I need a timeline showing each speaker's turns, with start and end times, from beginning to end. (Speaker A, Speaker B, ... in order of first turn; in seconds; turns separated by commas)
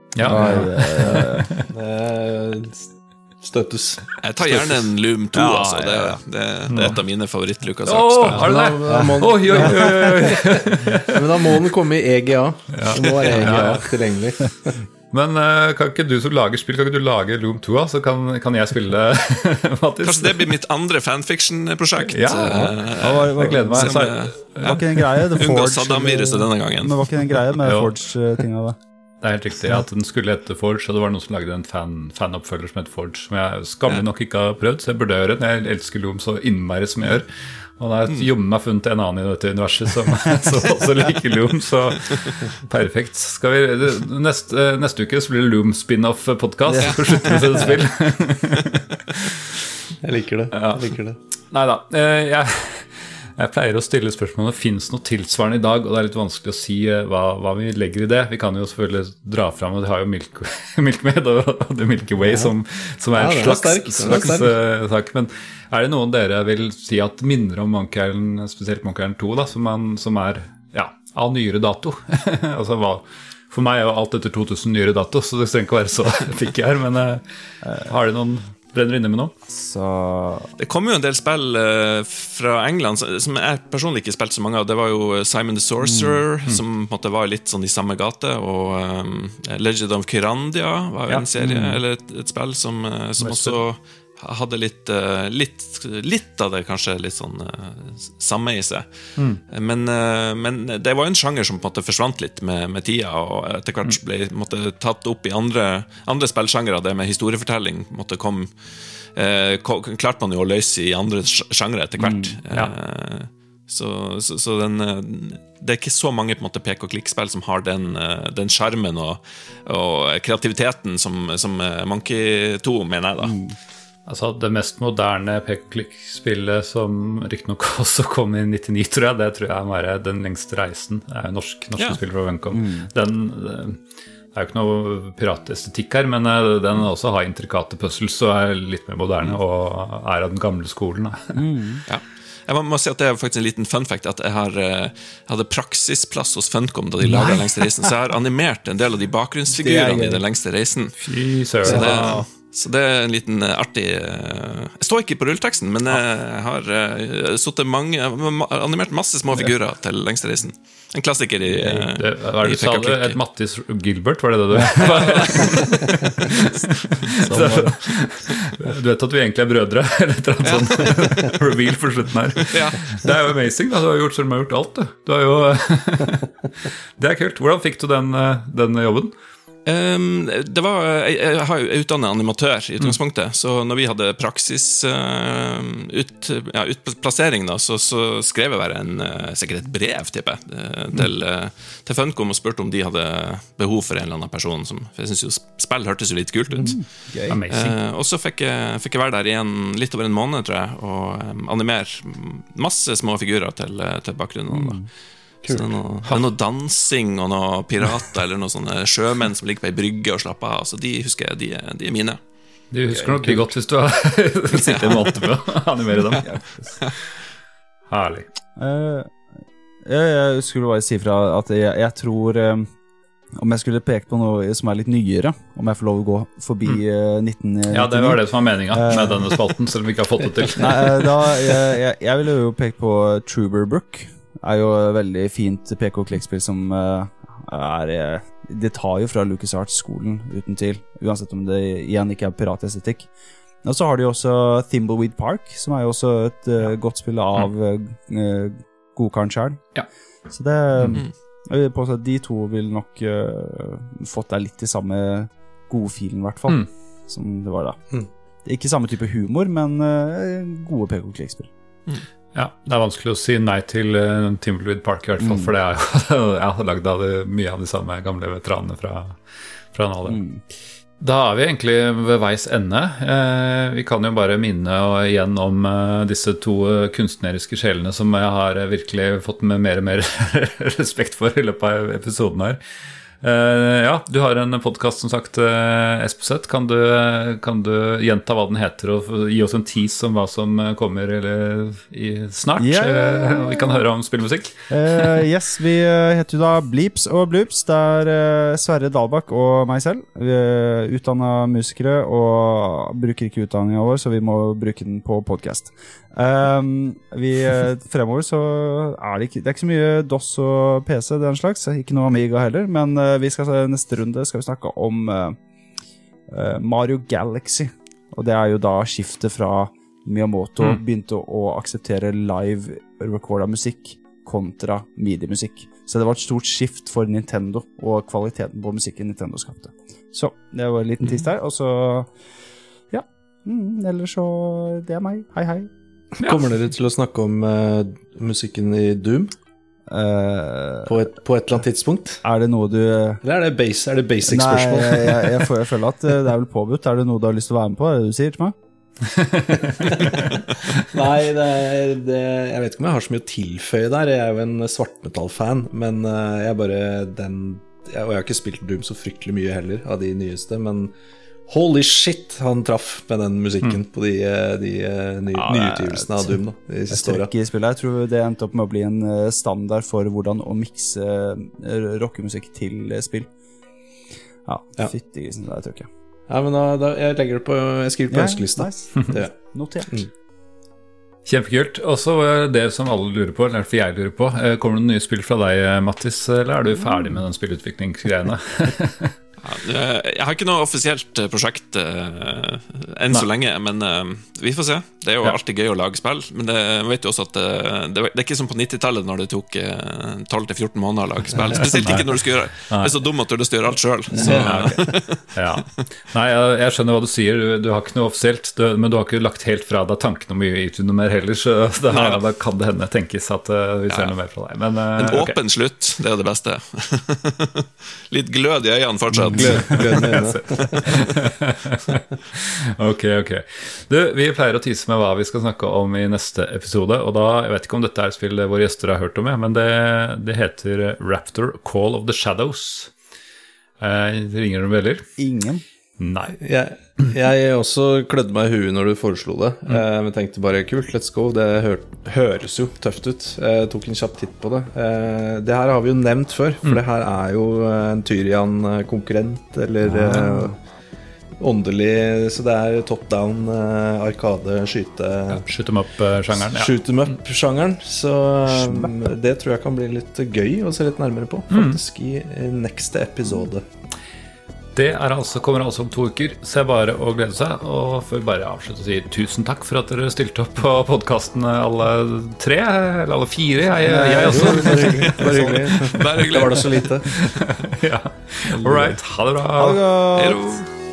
Speaker A: 0.1-1.6, Speaker B: 0.2-1.5, Speaker C: 1.7-2.9, Speaker C: 3.4-4.7, Speaker D: 4.2-8.5, Speaker B: 5.3-6.2, Speaker A: 6.7-7.0, Speaker A: 7.9-11.6, Speaker C: 8.3-14.8, Speaker B: 8.9-10.3, Speaker A: 12.7-13.9, Speaker D: 13.2-13.8, Speaker A: 15.1-20.6, Speaker D: 20.0-27.5, Speaker A: 22.1-25.3, Speaker B: 23.0-24.0, Speaker B: 24.6-28.8, Speaker A: 27.6-27.9, Speaker A: 29.2-49.6, Speaker D: 46.8-47.7, Speaker C: 50.0-51.2, Speaker A: 50.5-51.0, Speaker A: 51.5-79.3, Speaker C: 63.2-64.6, Speaker B: 79.5-80.5, Speaker D: 80.6-98.9, Speaker B: 85.8-86.2, Speaker B: 91.4-91.8, Speaker A: 93.2-93.6, Speaker D: 99.5-108.5, Speaker D: 109.2-123.4, Speaker B: 112.0-112.4, Speaker B: 123.2-123.6, Speaker A: 124.1-133.8, Speaker B: 132.5-132.9, Speaker A: 134.3-141.4, Speaker B: 141.3-141.8, Speaker D: 141.9-151.0, Speaker B: 147.1-147.5, Speaker B: 149.6-150.2, Speaker A: 151.0-152.2, Speaker D: 151.6-163.2, Speaker B: 151.6-152.3, Speaker A: 161.5-179.1, Speaker B: 164.6-164.9, Speaker D: 164.7-165.9, Speaker C: 167.3-167.9, Speaker D: 170.4-171.3, Speaker D: 172.5-173.1, Speaker D: 179.7-196.8, Speaker B: 196.6-197.4, Speaker A: 197.3-197.8, Speaker D: 197.5-204.9, Speaker B: 204.5-204.8, Speaker C: 205.4-206.2, Speaker D: 205.5-212.2, Speaker A: 212.7-216.4, Speaker D: 214.5-215.3, Speaker B: 216.2-216.7, Speaker A: 217.9-218.2, Speaker B: 218.6-219.2, Speaker B: 219.8-222.7, Speaker B: 223.4-229.4, Speaker A: 227.7-231.2, Speaker B: 230.6-243.1, Speaker B: 243.6-249.6, Speaker B: 250.3-257.8, Speaker A: 250.8-251.1, Speaker B: 258.4-261.5, Speaker A: 262.3-269.2, Speaker B: 265.2-265.5, Speaker A: 269.7-270.2, Speaker B: 270.1-270.4, Speaker A: 271.0-282.6, Speaker A: 283.2-295.1, Speaker B: 292.6-293.9, Speaker B: 294.7-315.4, Speaker B: 316.3-332.1, Speaker B: 332.9-335.7, Speaker C: 336.2-339.4, Speaker B: 339.9-340.9, Speaker C: 340.9-342.2, Speaker B: 342.2-343.2, Speaker C: 343.2-345.4, Speaker B: 344.3-348.6, Speaker C: 349.6-360.9, Speaker C: 361.5-367.3, Speaker B: 365.3-366.4, Speaker B: 366.9-373.3, Speaker B: 374.5-375.9, Speaker C: 376.3-379.4, Speaker B: 378.1-380.0, Speaker A: 381.2-389.1, Speaker D: 389.4-405.2, Speaker A: 401.6-402.9, Speaker C: 404.1-404.9, Speaker A: 404.2-415.4, Speaker D: 411.9-412.2, Speaker D: 415.0-420.0, Speaker C: 419.3-421.1, Speaker A: 419.4-432.9, Speaker A: 433.8-435.1, Speaker B: 435.2-435.6, Speaker A: 436.0-436.4, Speaker C: 436.4-450.6, Speaker B: 449.9-450.5, Speaker C: 451.4-455.4, Speaker A: 455.3-456.8, Speaker C: 456.3-463.6, Speaker B: 458.6-458.9, Speaker A: 461.5-461.8, Speaker A: 464.8-475.8, Speaker B: 473.9-475.6, Speaker C: 473.9-477.1, Speaker D: 475.2-476.9, Speaker A: 477.0-480.3, Speaker C: 478.5-479.0, Speaker B: 479.6-480.6, Speaker D: 480.2-480.7